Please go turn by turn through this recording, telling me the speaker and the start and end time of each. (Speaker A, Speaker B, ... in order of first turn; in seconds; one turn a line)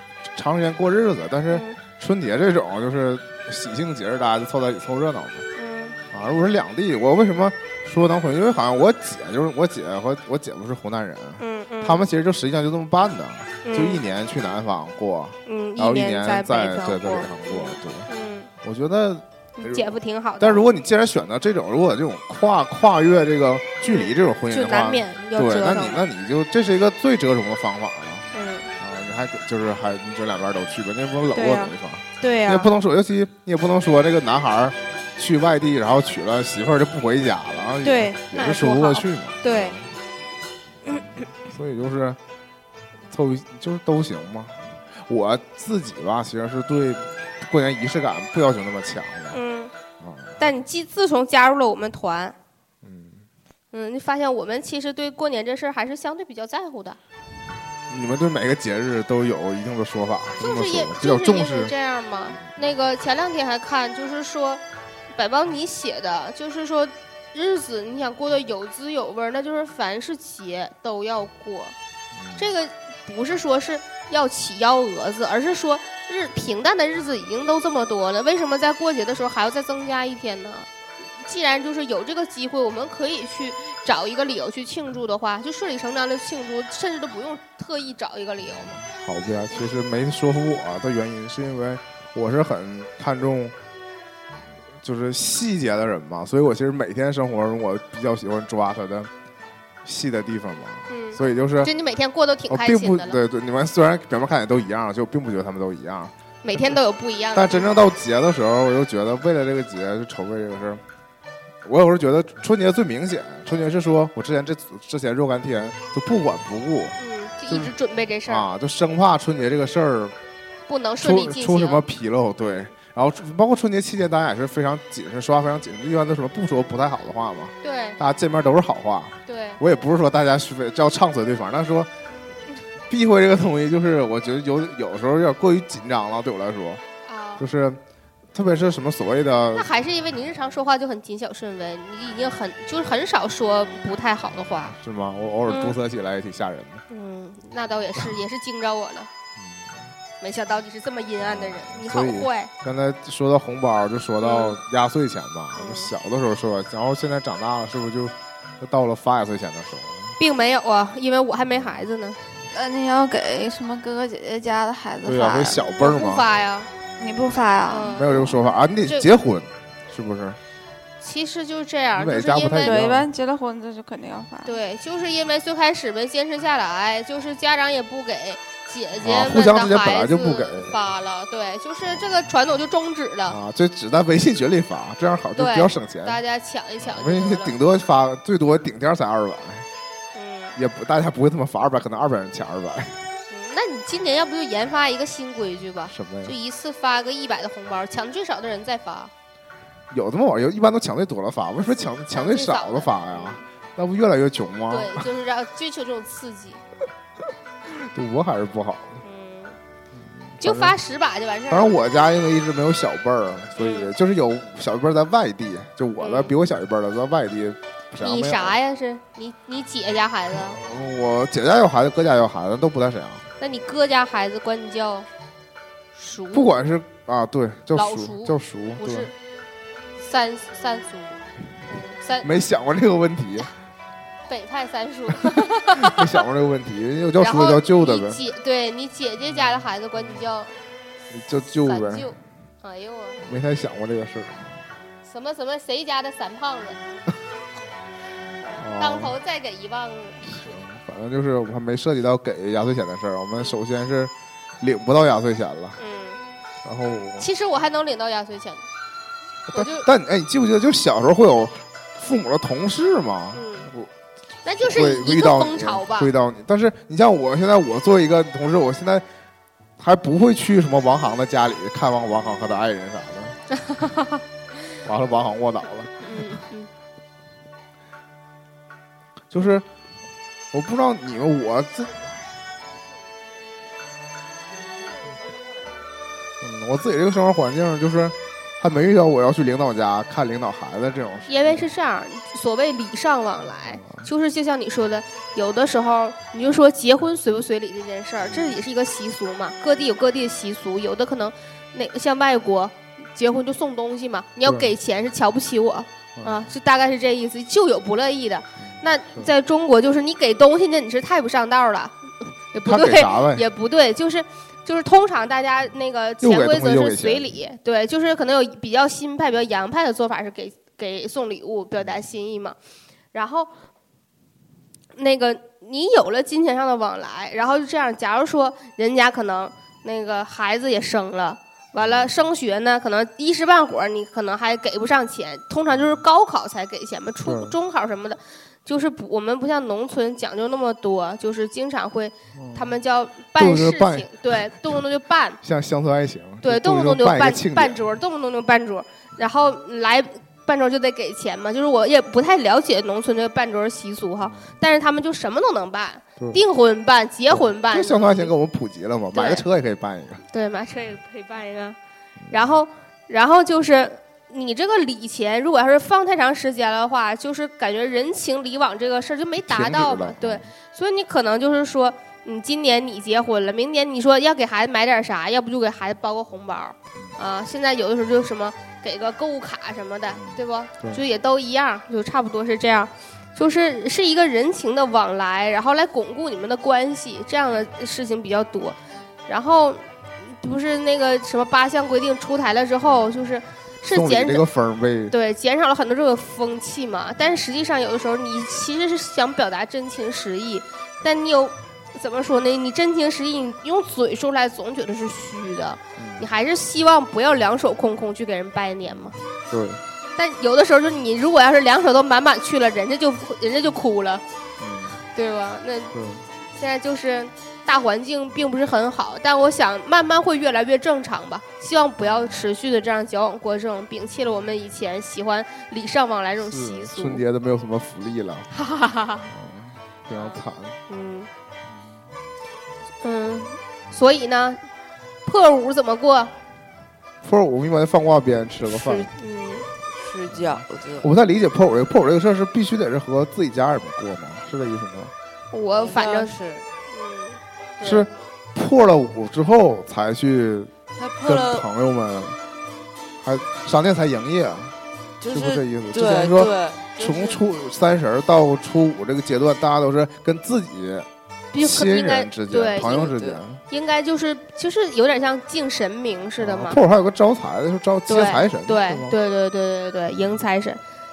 Speaker A: 0.3-5.5
Speaker B: 1.5-1.8
Speaker B: 5.6-6.0
Speaker A: 6.1-18.1
Speaker B: 11.4-12.1
Speaker B: 13.6-14.0
Speaker B: 15.5-18.5
Speaker A: 18.6-28.3
Speaker B: 19.6-20.6
Speaker B: 23.9-26.0
Speaker B: 28.3-28.7
Speaker A: 28.8-39.9
Speaker B: 31.3-32.7
Speaker B: 37.8-39.8
Speaker A: 40.9-42.2
Speaker A: 43.1-49.4
Speaker B: 49.3-49.7
Speaker A: 50.0-50.4
Speaker B: 50.4-52.4
Speaker A: 52.8-53.3
Speaker B: 53.7-57.0
Speaker A: 57.9-61.7
Speaker B: 60.4-64.6
Speaker B: 65.1-71.8
Speaker A: 72.1-72.5
Speaker B: 72.4-80.7
Speaker B: 81.2-88.8
Speaker A: 88.8-93.5
Speaker A: 94.7-99.1
Speaker A: 99.8-101.7
Speaker B: 100.9-103.2
Speaker A: 102.5-106.1
Speaker B: 106.4-107.7
Speaker A: 107.3-110.8
Speaker A: 111.6-117.7
Speaker B: 117.0-118.5
Speaker A: 118.3-120.2
Speaker B: 120.7-121.8
Speaker A: 121.0-131.9
Speaker B: 127.6-128.0
Speaker B: 129.3-129.6
Speaker A: 132.9-136.8
Speaker B: 137.1-137.4
Speaker A: 137.4-137.8
Speaker A: 138.3-139.7
Speaker B: 139.5-144.8
Speaker A: 144.7-146.8
Speaker B: 145.5-145.8
Speaker B: 146.9-149.1
Speaker A: 149.4-149.9
Speaker B: 150.2-152.5
Speaker A: 151.3-160.2
Speaker B: 154.2-154.6
Speaker B: 155.6-155.9
Speaker B: 160.2-162.2
Speaker C: 162.5-165.7
Speaker A: 165.0-166.2
Speaker B: 165.8-166.7
Speaker C: 167.0-168.3
Speaker B: 167.7-169.1
Speaker A: 167.9-170.4
Speaker B: 171.0-172.8
Speaker A: 172.0-173.1
Speaker C: 172.7-174.6
Speaker B: 174.4-183.4
Speaker A: 179.0-180.8
Speaker A: 183.3-186.2
Speaker B: 185.4-187.6
Speaker A: 186.8-189.7
Speaker B: 190.1-190.6
Speaker A: 190.6-193.0
Speaker B: 193.3-199.1
Speaker A: 195.9-196.3
Speaker A: 199.9-205.1
Speaker B: 202.1-203.4
Speaker B: 204.7-206.6
Speaker A: 207.7-209.0
Speaker B: 209.0-209.6
Speaker A: 209.9-210.8
Speaker B: 210.4-211.8
Speaker A: 211.5-218.6
Speaker B: 213.6-213.9
Speaker B: 216.0-216.3
Speaker B: 218.0-220.6
Speaker A: 220.3-223.3
Speaker B: 223.4-225.1
Speaker B: 225.9-226.5
Speaker A: 226.3-229.1
Speaker B: 227.7-229.1
Speaker B: 230.0-232.3
Speaker A: 232.2-233.5
Speaker B: 234.3-236.2
Speaker A: 235.7-238.2
Speaker B: 237.2-240.5
Speaker A: 241.1-242.1
Speaker B: 241.5-243.3
Speaker A: 243.2-244.6
Speaker B: 245.0-246.8
Speaker B: 248.4-250.3
Speaker A: 248.6-249.1
Speaker A: 250.2-255.8
Speaker B: 255.8-256.2
Speaker A: 256.6-257.3
Speaker B: 257.2-258.7
Speaker B: 259.5-259.9
Speaker A: 259.5-263.9
Speaker B: 263.3-263.7
Speaker B: 264.4-266.1
Speaker A: 264.6-269.1
Speaker A: 269.8-273.4
Speaker B: 273.5-274.2
Speaker A: 274.8-276.4
Speaker B: 276.0-276.7
Speaker A: 279.3-279.7
Speaker A: 280.5-282.2
Speaker A: 286.4-291.7
Speaker B: 291.3-322.6
Speaker A: 293.7-294.1
Speaker A: 298.3-298.6
Speaker A: 304.4-304.7
Speaker A: 306.2-306.4
Speaker A: 308.6-309.3
Speaker A: 312.6-313.4
Speaker A: 316.2-317.3
Speaker B: 323.1-323.5
Speaker B: 324.9-345.4
Speaker A: 331.8-332.1
Speaker A: 337.2-337.6
Speaker A: 342.4-342.8
Speaker A: 343.4-344.7
Speaker A: 345.4-347.8
Speaker B: 346.4-358.3
Speaker A: 354.2-354.5
Speaker A: 357.3-360.2
Speaker B: 359.1-359.4
Speaker B: 360.3-361.8
Speaker A: 362.2-362.5
Speaker B: 362.3-388.8
Speaker A: 369.4-370.4
Speaker A: 380.1-381.0
Speaker B: 389.3-394.4
Speaker A: 393.9-395.1
Speaker B: 395.1-409.2
Speaker A: 406.0-406.3
Speaker A: 408.9-409.8
Speaker B: 410.2-414.2
Speaker A: 414.6-415.0
Speaker B: 415.1-415.9
Speaker A: 415.9-416.2
Speaker B: 416.5-427.2
Speaker A: 422.0-422.4
Speaker A: 426.4-428.5
Speaker B: 428.5-429.3
Speaker A: 429.3-430.8
Speaker B: 430.1-431.3
Speaker A: 431.7-432.0
Speaker B: 433.0-434.6
Speaker B: 435.2-436.3
Speaker A: 437.2-439.1
Speaker B: 438.7-439.7
Speaker D: 439.9-441.1
Speaker A: 440.3-445.1
Speaker B: 445.5-446.4
Speaker D: 445.7-446.7
Speaker B: 446.9-448.1
Speaker A: 447.8-450.7
Speaker D: 451.0-451.7
Speaker A: 451.2-452.4
Speaker A: 453.2-454.8
Speaker D: 455.2-457.4
Speaker A: 455.3-463.6
Speaker B: 461.5-463.1
Speaker D: 462.9-463.4
Speaker B: 463.7-466.8
Speaker A: 466.4-469.1
Speaker B: 468.1-470.8